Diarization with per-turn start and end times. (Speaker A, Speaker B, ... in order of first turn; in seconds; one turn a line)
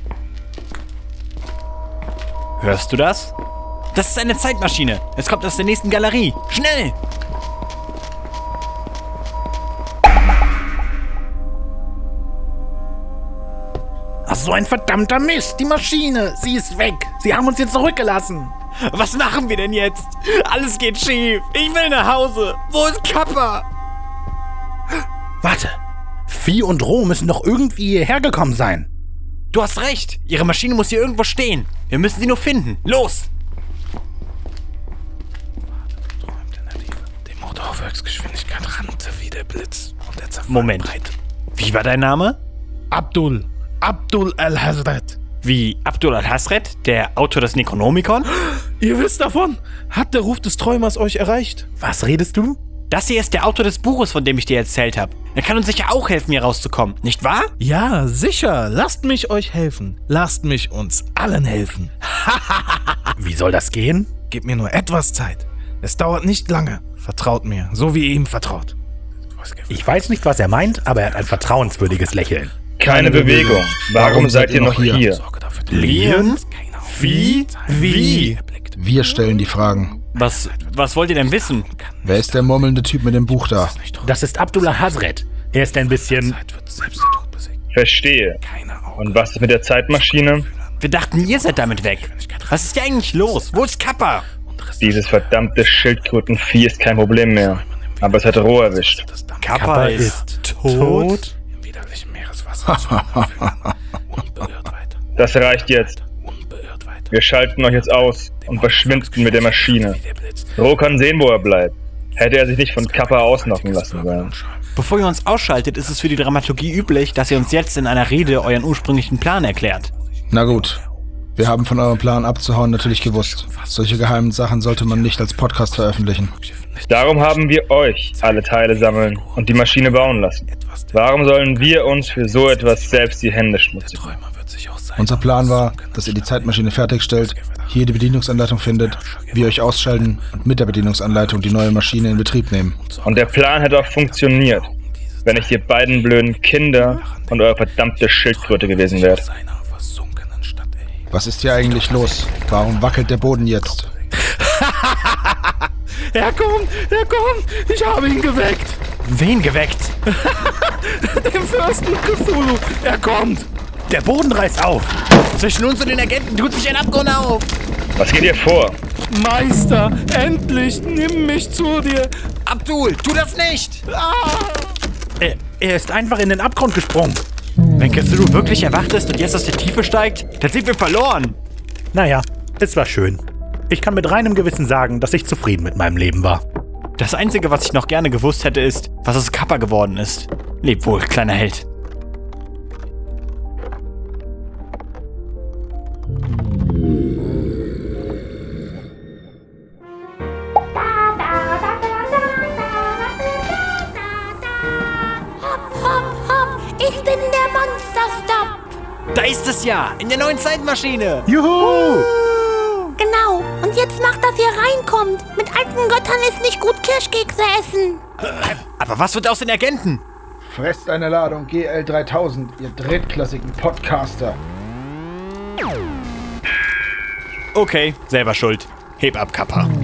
Speaker A: 2.6-3.3
Speaker A: 3.9-7.0
Speaker B: 14.3-18.5
Speaker A: 18.8-23.6
Speaker B: 25.4-25.8
Speaker B: 26.3-28.9
Speaker A: 29.5-33.3
Speaker C: 37.1-41.1
Speaker A: 40.5-40.9
Speaker A: 41.5-42.4
Speaker C: 42.9-45.2
Speaker A: 45.4-48.3
Speaker C: 48.7-51.6
Speaker B: 51.8-52.6
Speaker A: 52.9-57.5
Speaker C: 57.6-63.0
Speaker B: 63.2-64.1
Speaker C: 64.3-68.8
Speaker B: 69.7-72.5
Speaker D: 72.8-75.2
Speaker E: 72.8-75.1
Speaker B: 75.7-76.4
Speaker A: 75.7-78.4
Speaker C: 77.8-78.6
Speaker E: 78.8-80.0
Speaker A: 80.1-81.7
Speaker E: 82.0-83.8
Speaker B: 84.0-86.4
Speaker D: 87.7-88.4
Speaker D: 89.0-90.5
Speaker A: 90.8-94.3
Speaker D: 94.8-99.0
Speaker A: 99.4-101.3
Speaker B: 99.5-101.3
Speaker C: 101.6-103.2
Speaker C: 104.2-104.7
Speaker D: 105.2-106.0
Speaker D: 107.1-110.0
Speaker D: 110.6-114.3
Speaker A: 114.8-119.9
Speaker E: 120.3-120.8
Speaker E: 121.4-126.3
Speaker D: 126.9-134.2
Speaker E: 135.0-142.8
Speaker D: 143.1-144.7
Speaker D: 145.2-149.2
Speaker C: 149.9-150.6
Speaker E: 151.1-153.9
Speaker C: 156.1-158.8
Speaker A: 159.1-159.9
Speaker C: 160.1-163.5
Speaker B: 163.9-164.9
Speaker A: 165.1-167.5
Speaker D: 168.0-168.8
Speaker C: 169.1-172.1
Speaker A: 172.4-173.8
Speaker C: 173.9-174.7
Speaker B: 175.2-177.2
Speaker A: 177.8-181.4
Speaker B: 181.9-186.4
Speaker A: 187.0-191.7
Speaker F: 205.4-208.6
Speaker A: 209.1-211.3
Speaker B: 211.3-212.1
Speaker F: 211.6-212.4
Speaker F: 212.9-218.0
Speaker A: 218.2-220.0
Speaker E: 220.4-224.4
Speaker A: 227.5-229.7